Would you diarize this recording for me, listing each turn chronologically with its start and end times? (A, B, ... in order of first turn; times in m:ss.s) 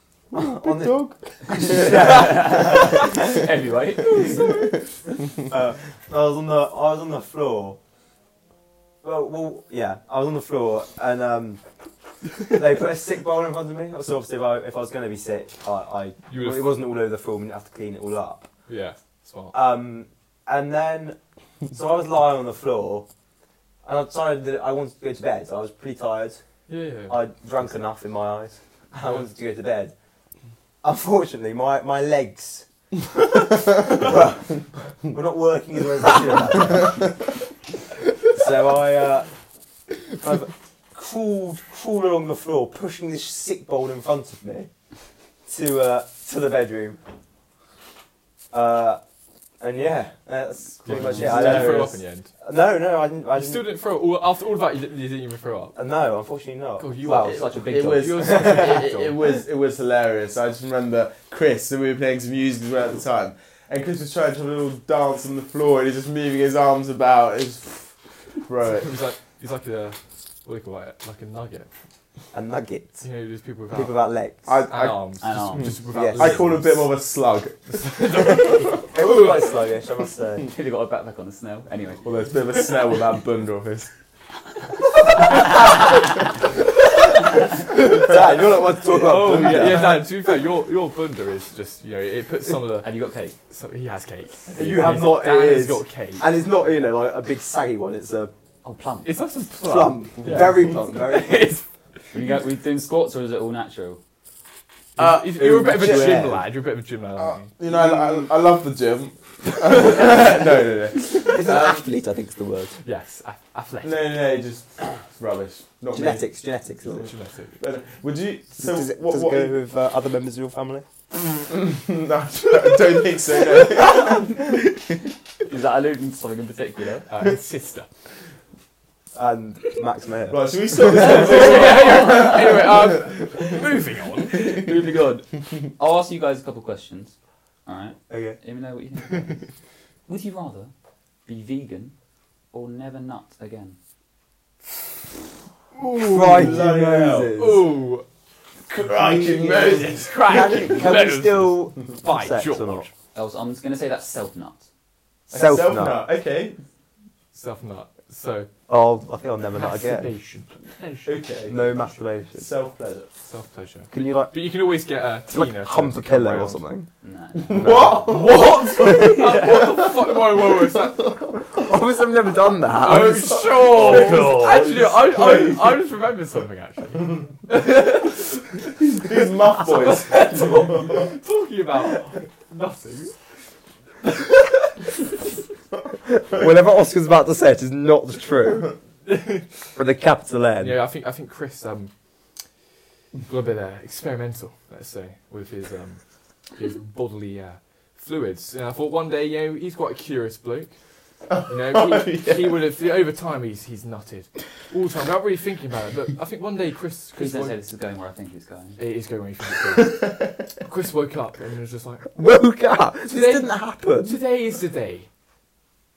0:00.3-0:03.4 A
0:00.3-0:02.4 B
0:01.6-0:04.5 C
0:04.0-0:04.9 D
0:05.5-0:07.8 A
0:09.0-0:11.6 A
0:12.4-0:18.5 A
0:16.3-0:16.8 D
0:18.7-0:19.6 D
0:19.5-0:21.2 A
0:21.7-0:23.1 A
0:23.8-0:26.4 A
0:26.7-0:27.2 D
0:27.1-0:29.9 A
0:30.8-0:32.6 A
0:33.3-0:37.1 A
0:38.3-0:39.3 A
0:40.2-0:44.7 A
0:45.4-0:47.0 A
0:48.5-0:49.0 A
0:49.6-0:53.6 A
0:50.8-0:52.3 D
0:50.8-0:52.0 B
0:53.3-0:55.7 D
0:55.7-0:57.5 A
0:56.8-0:59.2 D
0:57.0-0:58.3 C
0:57.5-1:07.9 B
0:58.2-0:58.8 A
1:08.4-1:08.9 B
1:08.8-1:11.7 D
1:12.3-1:13.0 A
1:13.0-1:14.0 D
1:13.7-1:14.5 A
1:14.4-1:15.0 B
1:14.7-1:16.9 D
1:15.2-1:15.8 C
1:15.6-1:18.3 B
1:15.9-1:16.5 A
1:17.7-1:19.4 D
1:18.3-1:20.5 A
1:20.4-1:22.1 C
1:22.0-1:23.9 B
1:27.7-1:30.0 A
1:28.8-1:32.9 D
1:29.4-1:29.7 B
1:32.8-1:33.4 C
1:33.5-1:36.2 D
1:34.5-1:38.3 A
1:38.6-1:39.1 C
1:39.0-1:41.6 D
1:39.6-1:41.5 A
1:42.1-1:44.0 C
1:45.0-1:46.4 B
1:45.0-1:47.5 D
1:45.9-1:46.2 A
1:47.2-1:51.8 B
1:51.1-1:52.8 A
1:52.8-1:54.1 D
1:53.8-1:56.2 B
1:55.9-1:57.1 A
1:56.9-1:57.6 D
1:57.6-1:59.5 B
1:58.6-2:00.8 A
2:01.5-2:04.5 B
2:05.4-2:07.1 C
2:07.1-2:07.9 D
2:09.1-2:11.4 A
2:10.3-2:13.5 B
2:10.9-2:14.6 D
2:11.0-2:12.7 C
2:14.3-2:17.1 C
2:17.6-2:19.4 C
2:18.1-2:18.4 A
2:20.1-2:20.7 C
2:21.2-2:21.9 C
2:22.5-2:23.8 C
2:25.8-2:26.6 D
2:25.9-2:27.6 A
2:26.1-2:27.4 B
2:27.3-2:28.0 D
2:28.7-2:30.5 B
2:29.0-2:32.9 A
2:29.5-2:32.9 D
2:33.1-2:34.6 C
2:35.3-2:36.0 A
2:35.3-2:36.6 B
2:37.3-2:38.5 D
2:38.7-2:40.1 A
2:39.5-2:41.6 D
2:41.0-2:43.1 B
2:41.5-2:42.5 A
2:43.2-2:46.6 D
2:43.9-2:44.3 A
2:45.3-2:46.9 A
2:47.0-2:48.1 C
2:47.4-2:51.3 B
2:47.5-2:48.2 A
2:48.0-2:51.1 D
2:48.8-2:49.2 A
2:48.8-2:49.7 C
2:51.5-2:53.3 A
2:52.8-2:59.0 D
2:52.8-2:55.8 B
2:53.7-2:54.6 C
2:58.8-3:01.1 B
2:59.6-3:03.2 D
3:06.1-3:08.7 A
3:09.0-3:09.5 D
3:09.8-3:10.8 A
3:10.6-3:11.9 D
3:13.2-3:16.0 D
3:16.5-3:20.7 D
3:21.3-3:22.6 B
3:21.5-3:27.6 D
3:27.2-3:28.8 C
3:28.8-3:32.1 D
3:29.8-3:30.3 B
3:32.2-3:34.2 A
3:33.1-3:35.1 D